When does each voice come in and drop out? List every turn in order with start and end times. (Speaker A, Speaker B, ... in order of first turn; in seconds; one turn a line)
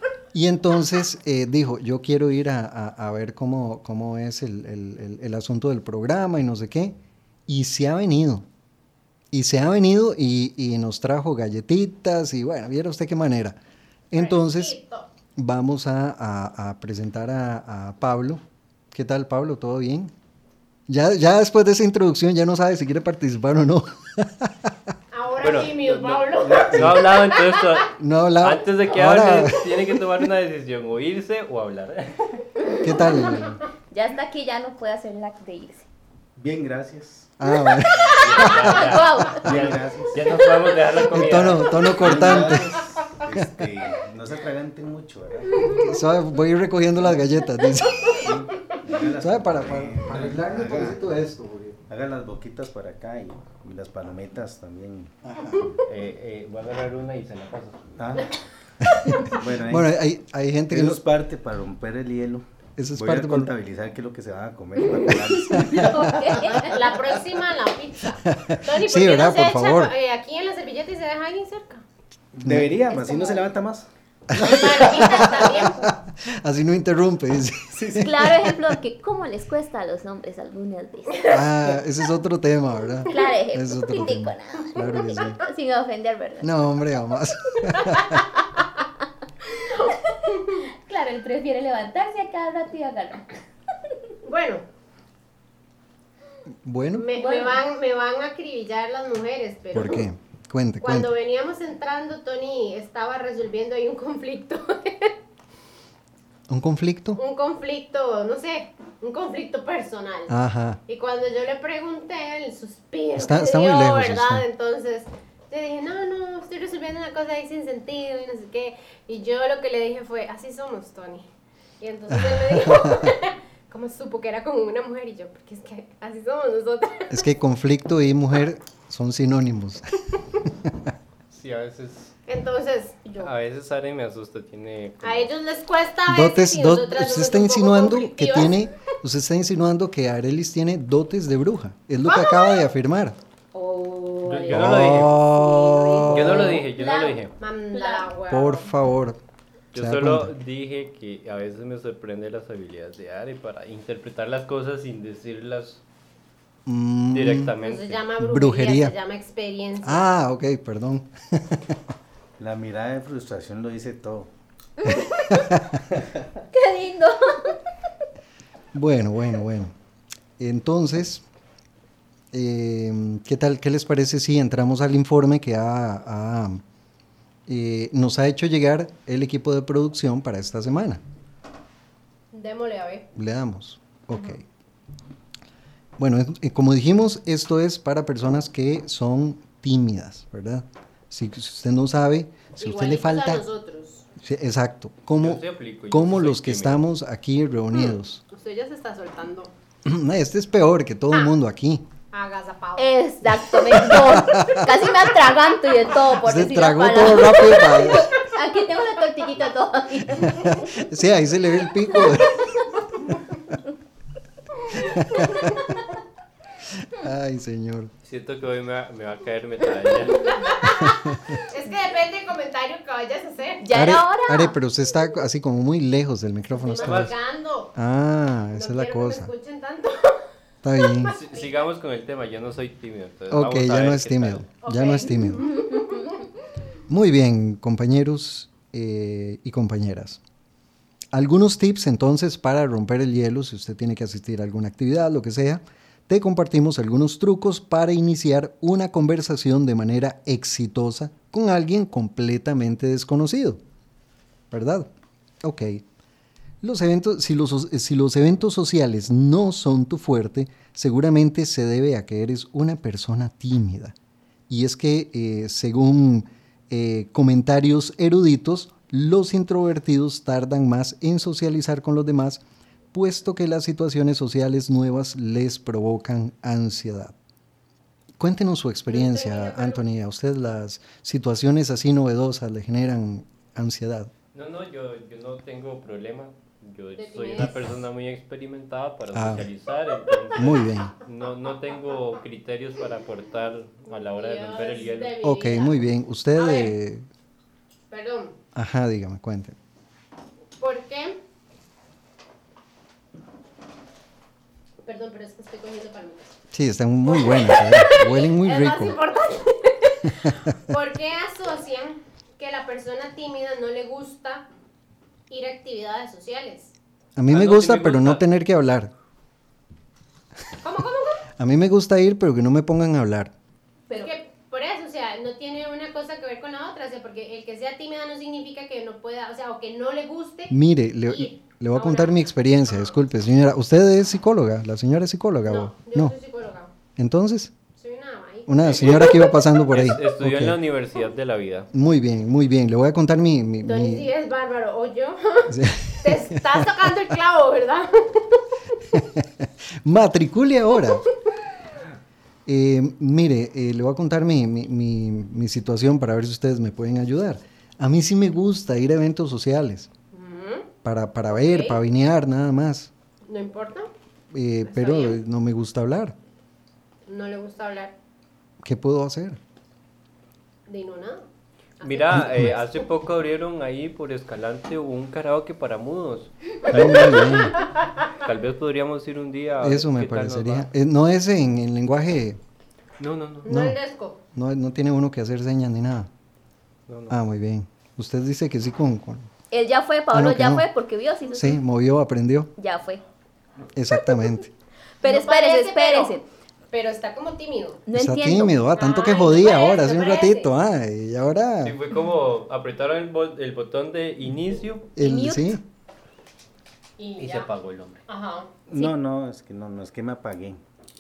Speaker A: 0.3-7.0
Speaker A: 7.5-8.5
Speaker A: 9.3-13.6
Speaker A: 14.1-14.8
Speaker B: 14.1-15.1
Speaker A: 15.4-20.1
Speaker A: 20.9-24.7
Speaker B: 25.1-27.8
Speaker C: 25.4-27.9
Speaker D: 26.4-26.9
Speaker A: 28.0-30.0
Speaker C: 28.4-32.4
Speaker A: 32.8-33.6
Speaker E: 33.9-35.9
Speaker D: 36.4-37.4
Speaker A: 37.4-38.8
Speaker C: 38.1-42.2
Speaker E: 38.7-39.5
Speaker D: 39.3-40.4
Speaker A: 41.1-43.7
Speaker D: 41.9-45.9
Speaker A: 45.7-48.3
Speaker D: 48.0-51.0
Speaker A: 49.2-51.8
Speaker D: 51.9-55.2
Speaker A: 55.2-55.7
Speaker C: 55.9-57.8
Speaker D: 58.0-58.3
Speaker A: 58.8-61.0
Speaker D: 59.2-59.9
Speaker D: 60.7-62.5
Speaker A: 62.8-63.5
Speaker D: 63.0-66.0
Speaker E: 65.0-66.7
Speaker A: 65.4-66.6
Speaker B: 66.0-71.8
Speaker A: 68.1-69.9
Speaker D: 72.3-74.8
Speaker A: 72.4-72.7
Speaker B: 72.9-73.4
Speaker A: 74.3-78.3
Speaker B: 74.4-75.8
Speaker D: 77.8-78.1
Speaker E: 78.0-81.2
Speaker A: 81.3-85.4
Speaker E: 83.1-86.5
Speaker A: 86.4-88.2
Speaker E: 90.3-93.4
Speaker B: 94.2-94.7
Speaker A: 96.6-97.1
Speaker B: 97.0-100.0
Speaker E: 97.2-97.6
Speaker A: 99.7-101.1
Speaker B: 100.8-105.2
Speaker A: 106.5-107.2
Speaker B: 107.2-110.3
Speaker A: 110.3-110.8
Speaker B: 110.9-121.3
Speaker A: 113.2-114.5
Speaker B: 121.8-127.2
Speaker A: 122.1-123.2
Speaker A: 127.1-130.9
Speaker C: 131.3-132.1
Speaker B: 132.3-133.3
Speaker C: 133.2-135.3
Speaker B: 135.0-138.6
Speaker A: 136.1-143.2
Speaker B: 142.1-142.7
Speaker E: 143.5-148.1
Speaker C: 144.2-145.2
Speaker A: 144.5-146.6
Speaker C: 146.1-147.3
Speaker B: 147.4-148.7
Speaker A: 148.3-149.2
Speaker C: 149.7-155.8
Speaker A: 149.7-150.3
Speaker A: 156.7-157.5
Speaker C: 157.1-158.0
Speaker B: 157.6-160.1
Speaker A: 158.2-158.9
Speaker A: 159.8-161.8
Speaker D: 162.4-164.3
Speaker E: 164.9-165.3
Speaker A: 165.3-165.8
Speaker E: 166.5-167.6
Speaker A: 168.7-169.7
Speaker A: 170.4-171.2
Speaker A: 172.3-176.6
Speaker A: 177.5-181.0
Speaker B: 182.3-183.1
Speaker A: 183.2-184.4
Speaker A: 186.0-193.4
Speaker B: 192.6-194.1
Speaker A: 194.2-198.2
Speaker C: 195.2-196.8
Speaker B: 198.3-199.5
Speaker A: 199.8-201.9
Speaker B: 202.1-202.9
Speaker E: 202.8-210.7
Speaker A: 203.6-204.8
Speaker A: 206.2-208.1
Speaker A: 210.1-213.1
Speaker A: 214.7-215.8
Speaker A: 216.6-217.9
Speaker C: 218.0-220.5
Speaker B: 220.3-223.7
Speaker A: 220.8-221.3
Speaker E: 223.6-224.6
Speaker A: 223.7-227.2
Speaker B: 226.6-227.7
Speaker C: 226.8-227.1
Speaker A: 227.8-229.3
Speaker B: 228.6-230.2
Speaker A: 230.6-231.2
Speaker B: 230.8-231.7
Speaker C: 231.1-234.5
Speaker A: 233.3-235.5
Speaker B: 234.6-236.2
Speaker A: 236.9-240.2
Speaker A: 241.1-253.6
Speaker A: 254.5-254.9
Speaker A: 255.4-255.8
Speaker A: 256.6-263.9
Speaker A: 264.5-272.4
Speaker A: 272.9-277.1
Speaker A: 278.2-284.1
Speaker B: 278.9-279.8
Speaker C: 284.3-295.1
Speaker B: 287.0-287.6
Speaker A: 289.1-289.5
Speaker A: 290.4-290.9
Speaker B: 293.9-295.8
Speaker A: 295.2-297.1
Speaker B: 296.4-296.7
Speaker B: 297.9-298.4
Speaker A: 298.5-299.6
Speaker B: 300.6-301.2
Speaker B: 304.8-306.4
Speaker A: 306.5-309.0
Speaker B: 307.1-314.5
Speaker A: 310.1-310.4
Speaker B: 315.3-316.7
Speaker A: 317.2-318.9
Speaker C: 317.3-318.2
Speaker B: 320.6-321.2
Speaker A: 321.4-323.3
Speaker B: 323.9-330.6
Speaker A: 330.5-336.1
Speaker B: 331.1-332.9
Speaker B: 335.5-336.7
Speaker A: 337.0-337.5
Speaker B: 337.8-339.1
Speaker A: 338.5-340.6
Speaker C: 338.6-341.7
Speaker A: 341.7-344.1
Speaker B: 343.6-348.4
Speaker A: 345.5-346.9
Speaker A: 348.9-351.0
Speaker A: 352.5-359.9
Speaker B: 360.1-360.7
Speaker A: 360.8-362.9
Speaker B: 361.3-361.8
Speaker B: 363.2-363.9
Speaker A: 364.3-366.2
Speaker B: 364.6-365.2
Speaker B: 367.1-367.9
Speaker A: 368.6-369.4
Speaker B: 370.7-371.2
Speaker B: 371.8-372.3
Speaker C: 371.8-377.4
Speaker A: 372.1-372.5
Speaker A: 376.7-377.6
Speaker B: 376.7-377.7
Speaker C: 378.2-380.7
Speaker A: 379.6-382.4
Speaker C: 383.0-383.6
Speaker B: 383.4-384.2
Speaker A: 383.5-383.8
Speaker A: 384.4-386.1
Speaker C: 386.9-387.2
Speaker A: 387.1-389.3
Speaker E: 389.5-391.6
Speaker A: 390.1-390.6
Speaker A: 391.3-392.5
Speaker E: 392.6-393.0
Speaker A: 393.8-394.5
Speaker E: 395.0-396.2
Speaker B: 395.0-396.1
Speaker B: 396.7-397.8
Speaker E: 397.9-398.6
Speaker A: 397.9-401.8
Speaker B: 398.8-400.5
Speaker C: 401.6-404.9
Speaker A: 405.0-405.6
Speaker E: 405.0-405.6
Speaker B: 407.0-407.5
Speaker C: 407.2-408.0
Speaker B: 408.1-408.5
Speaker D: 408.7-410.6